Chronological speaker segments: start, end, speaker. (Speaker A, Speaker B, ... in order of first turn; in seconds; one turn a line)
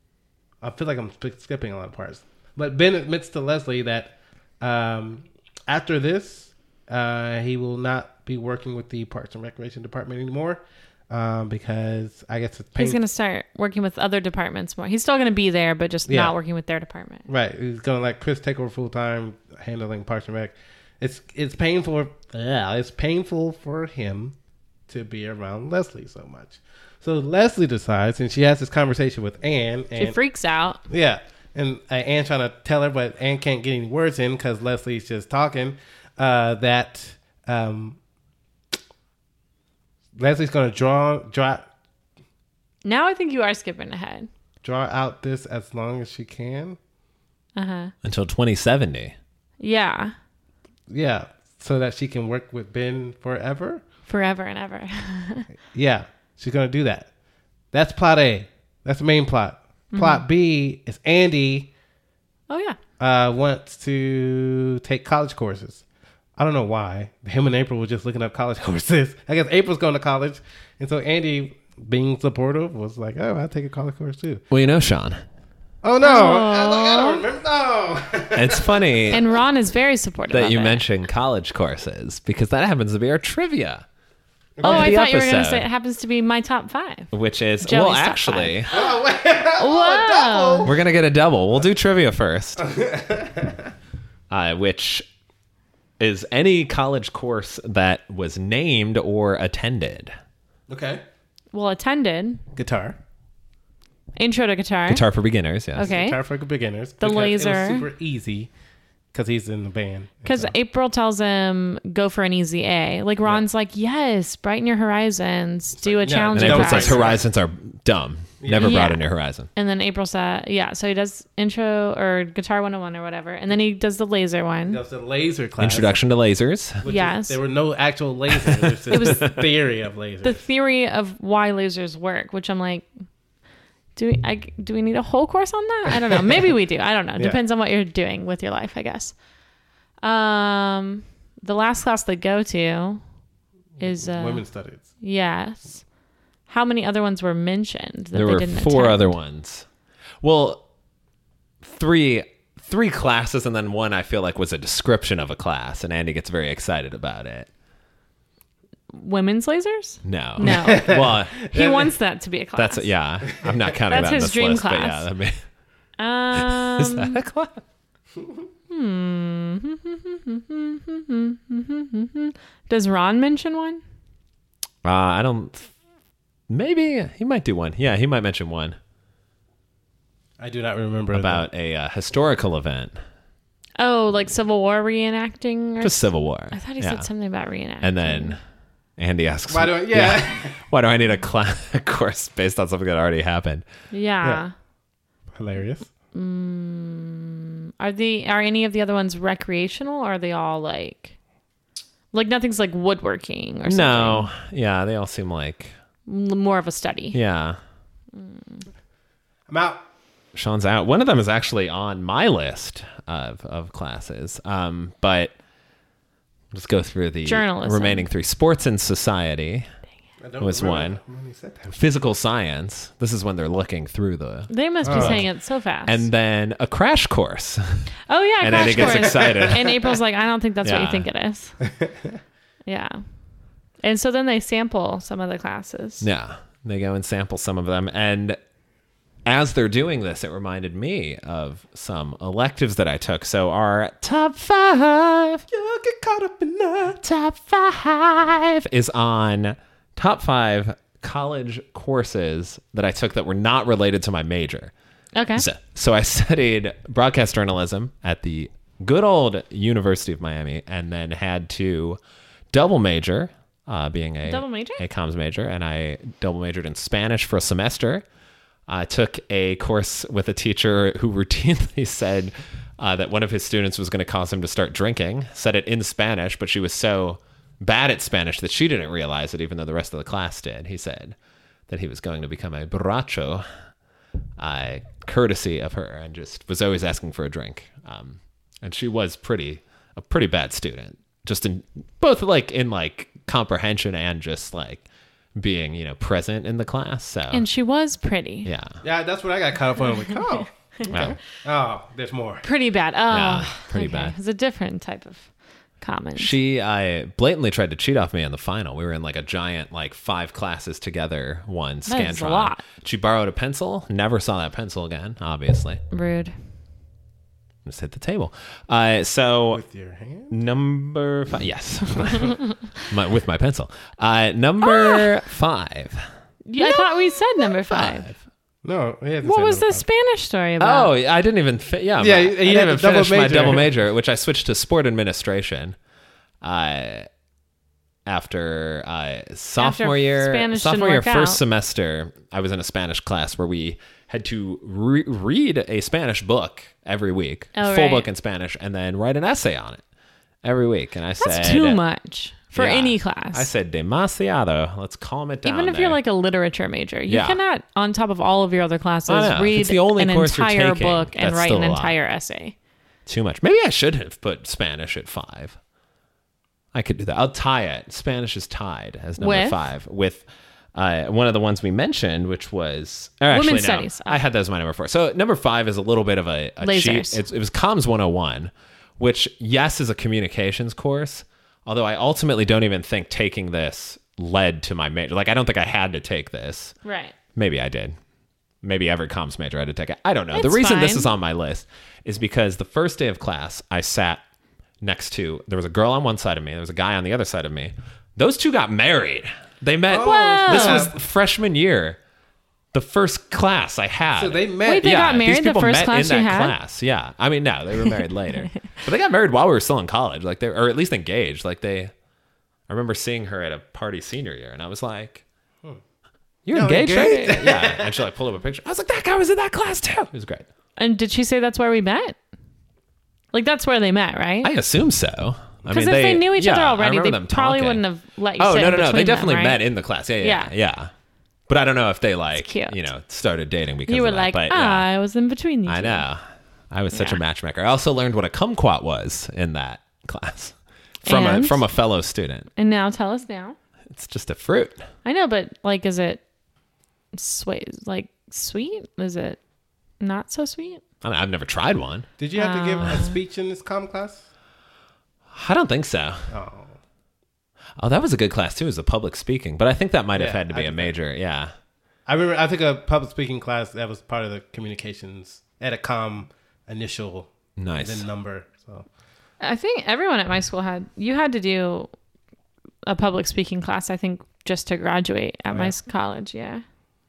Speaker A: 0.6-13.0
Speaker B: 12.8-17.3
Speaker A: 16.1-16.3
Speaker A: 17.3-24.4
Speaker A: 24.9-30.2
Speaker B: 30.0-30.8
Speaker A: 30.9-38.0
Speaker A: 40.2-41.7
Speaker B: 42.8-44.3
Speaker A: 44.6-46.8
Speaker B: 47.6-47.9
Speaker C: 48.0-49.1
Speaker B: 49.6-50.1
Speaker A: 50.9-53.8
Speaker B: 54.1-55.5
Speaker A: 55.7-57.1
Speaker A: 57.7-61.7
Speaker B: 59.9-60.2
Speaker B: 62.5-62.8
Speaker A: 63.0-65.8
Speaker A: 66.4-74.4
Speaker C: 74.5-75.2
Speaker A: 75.8-79.1
Speaker B: 76.0-77.2
Speaker C: 78.3-79.2
Speaker B: 79.1-80.8
Speaker C: 80.3-83.8
Speaker A: 84.6-84.9
Speaker C: 84.6-85.7
Speaker B: 84.6-88.8
Speaker C: 87.1-88.8
Speaker A: 88.7-90.7
Speaker B: 89.6-90.7
Speaker C: 90.7-92.6
Speaker A: 92.6-93.7
Speaker C: 94.3-95.0
Speaker C: 96.0-100.1
Speaker A: 100.7-101.0
Speaker B: 101.5-102.4
Speaker A: 102.5-103.0
Speaker B: 104.2-105.0
Speaker C: 104.9-105.9
Speaker A: 105.8-108.5
Speaker B: 105.8-106.2
Speaker B: 107.0-107.9
Speaker A: 109.1-110.5
Speaker B: 110.2-117.1
Speaker A: 115.8-117.2
Speaker C: 116.3-119.5
Speaker A: 118.4-118.7
Speaker B: 118.6-119.0
Speaker B: 119.6-124.8
Speaker A: 124.7-126.0
Speaker C: 125.6-126.8
Speaker A: 126.8-130.4
Speaker B: 126.9-127.4
Speaker C: 128.3-129.4
Speaker B: 128.9-129.3
Speaker B: 130.2-132.9
Speaker B: 134.0-139.2
Speaker A: 136.1-136.5
Speaker B: 140.0-143.0
Speaker B: 143.8-144.4
Speaker A: 143.8-144.8
Speaker B: 145.0-145.8
Speaker B: 146.5-149.2
Speaker C: 148.2-149.7
Speaker C: 150.2-150.6
Speaker C: 151.6-157.5
Speaker B: 158.9-162.9
Speaker C: 160.0-161.5
Speaker A: 160.4-161.9
Speaker C: 162.6-165.4
Speaker B: 163.9-165.1
Speaker B: 166.0-167.2
Speaker C: 166.3-167.6
Speaker B: 168.7-173.8
Speaker C: 174.8-175.7
Speaker C: 176.5-178.8
Speaker A: 180.4-181.5
Speaker C: 181.1-183.0
Speaker B: 183.8-188.4
Speaker C: 185.8-187.1
Speaker C: 187.8-188.4
Speaker C: 189.0-193.7
Speaker A: 189.5-190.7
Speaker B: 193.9-194.5
Speaker A: 195.3-195.9
Speaker B: 196.1-201.2
Speaker B: 202.1-204.3
Speaker C: 203.7-205.8
Speaker B: 206.1-207.2
Speaker C: 207.1-207.6
Speaker B: 208.2-208.7
Speaker A: 209.5-209.8
Speaker C: 210.3-215.3
Speaker C: 216.5-219.7
Speaker B: 217.2-218.1
Speaker A: 220.2-221.8
Speaker C: 220.4-221.0
Speaker C: 221.7-225.3
Speaker B: 224.5-226.0
Speaker A: 224.8-225.2
Speaker C: 225.8-227.8
Speaker B: 228.1-231.6
Speaker C: 228.4-230.0
Speaker A: 228.5-229.5
Speaker C: 230.6-231.1
Speaker A: 231.6-232.1
Speaker B: 232.7-233.0
Speaker B: 233.8-236.1
Speaker C: 236.0-238.4
Speaker C: 239.3-245.4
Speaker A: 245.5-247.0
Speaker C: 247.0-254.7
Speaker B: 255.2-255.4
Speaker C: 255.4-262.0
Speaker C: 262.5-268.1
Speaker B: 264.3-264.8
Speaker C: 268.7-281.2
Speaker C: 281.7-283.4
Speaker C: 284.4-297.5
Speaker B: 297.3-298.5
Speaker C: 298.4-298.8
Speaker A: 298.8-302.4
Speaker C: 300.9-301.2
Speaker B: 302.4-305.3
Speaker C: 303.1-304.1
Speaker B: 305.8-306.4
Speaker C: 306.2-315.8
Speaker B: 311.9-312.6
Speaker B: 315.9-316.3
Speaker C: 317.6-319.6
Speaker A: 319.5-320.3
Speaker C: 320.3-326.1
Speaker B: 324.7-325.1
Speaker B: 326.5-328.1
Speaker C: 326.6-327.0
Speaker C: 327.6-328.2
Speaker A: 328.6-329.9
Speaker B: 329.2-330.9
Speaker C: 330.6-335.8
Speaker A: 332.0-333.7
Speaker C: 336.4-337.1
Speaker C: 338.1-349.8
Speaker B: 339.6-341.4
Speaker B: 347.6-348.1
Speaker C: 350.4-351.8
Speaker B: 351.2-353.5
Speaker C: 352.6-356.0
Speaker B: 355.4-362.6
Speaker C: 357.1-357.4
Speaker C: 359.1-361.9
Speaker C: 363.1-365.6
Speaker C: 366.7-386.8
Speaker B: 369.2-369.6
Speaker B: 373.3-374.2
Speaker B: 376.6-377.2
Speaker B: 386.9-387.1
Speaker C: 387.4-387.9
Speaker C: 388.6-394.2
Speaker B: 390.3-391.1
Speaker C: 394.8-402.0
Speaker A: 399.9-401.0
Speaker B: 400.0-400.9
Speaker C: 402.7-411.9
Speaker A: 404.2-405.0
Speaker B: 404.6-406.6
Speaker C: 412.7-415.2
Speaker C: 416.5-420.5
Speaker A: 416.5-418.0
Speaker B: 420.8-422.2
Speaker B: 423.3-424.5
Speaker C: 424.4-427.8
Speaker B: 425.7-429.6
Speaker C: 428.4-430.9
Speaker B: 430.2-430.5
Speaker C: 431.5-434.9
Speaker B: 432.4-432.9
Speaker B: 433.9-436.0
Speaker C: 435.7-442.5
Speaker B: 436.9-437.2
Speaker B: 441.1-441.6
Speaker B: 442.6-443.6
Speaker C: 443.9-444.8
Speaker B: 445.1-446.2
Speaker B: 447.1-449.4
Speaker B: 450.0-450.8
Speaker C: 451.0-452.1
Speaker A: 452.2-454.3
Speaker B: 452.4-453.2
Speaker C: 455.3-456.3
Speaker A: 456.3-456.8
Speaker C: 457.8-461.5
Speaker A: 460.1-460.9
Speaker A: 462.1-468.9
Speaker C: 467.6-468.1
Speaker B: 469.4-471.9
Speaker B: 472.9-476.6
Speaker A: 475.5-475.8